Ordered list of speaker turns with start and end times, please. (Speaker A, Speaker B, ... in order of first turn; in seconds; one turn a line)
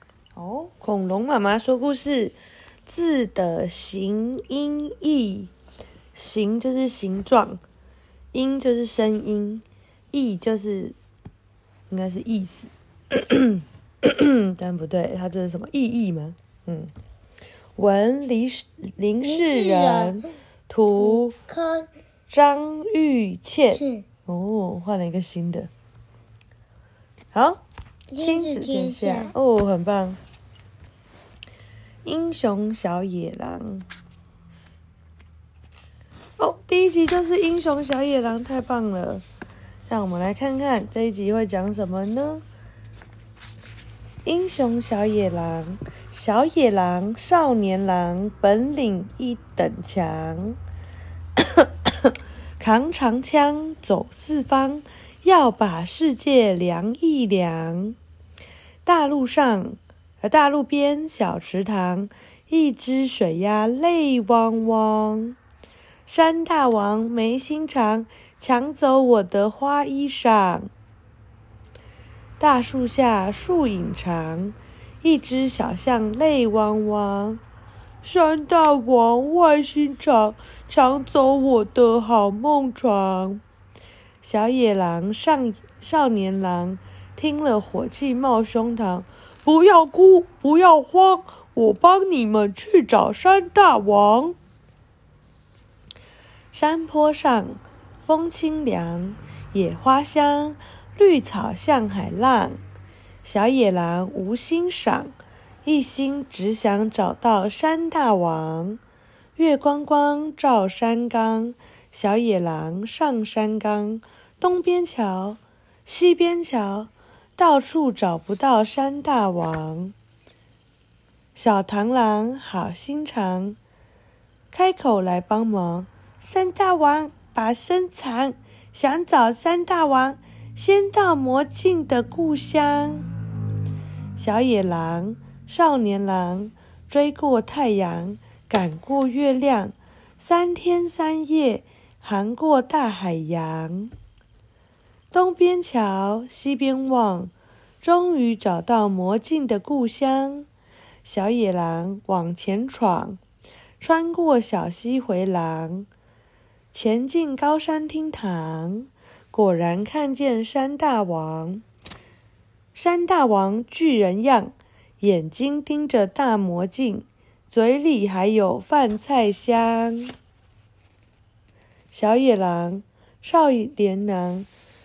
Speaker A: 0.3-5.5
Speaker A: 6.1-7.6
Speaker A: 8.3-10.9
Speaker A: 11.9-16.9
Speaker A: 17.8-21.4
Speaker B: 19.2-20.2
Speaker B: 21.0-21.9
Speaker A: 22.3-25.7
Speaker B: 23.7-24.0
Speaker A: 27.3-27.6
Speaker B: 28.1-29.3
Speaker A: 28.2-30.2
Speaker A: 32.0-33.9
Speaker A: 36.4-39.2
Speaker A: 39.9-42.4
Speaker A: 44.2-50.6
Speaker A: 51.4-58.0
Speaker A: 58.8-65.4
Speaker A: 66.0-70.7
Speaker A: 72.4-77.4
Speaker A: 78.0-83.4
Speaker A: 84.2-94.3
Speaker A: 96.5-102.6
Speaker A: 103.2-105.1
Speaker A: 105.6-108.8
Speaker A: 109.3-119.9
Speaker A: 121.3-123.6
Speaker A: 124.5-133.1
Speaker A: 134.2-143.9
Speaker A: 145.1-150.5
Speaker A: 151.0-153.2
Speaker A: 153.8-155.9
Speaker A: 156.7-161.6
Speaker A: 162.7-170.1
Speaker A: 171.9-174.5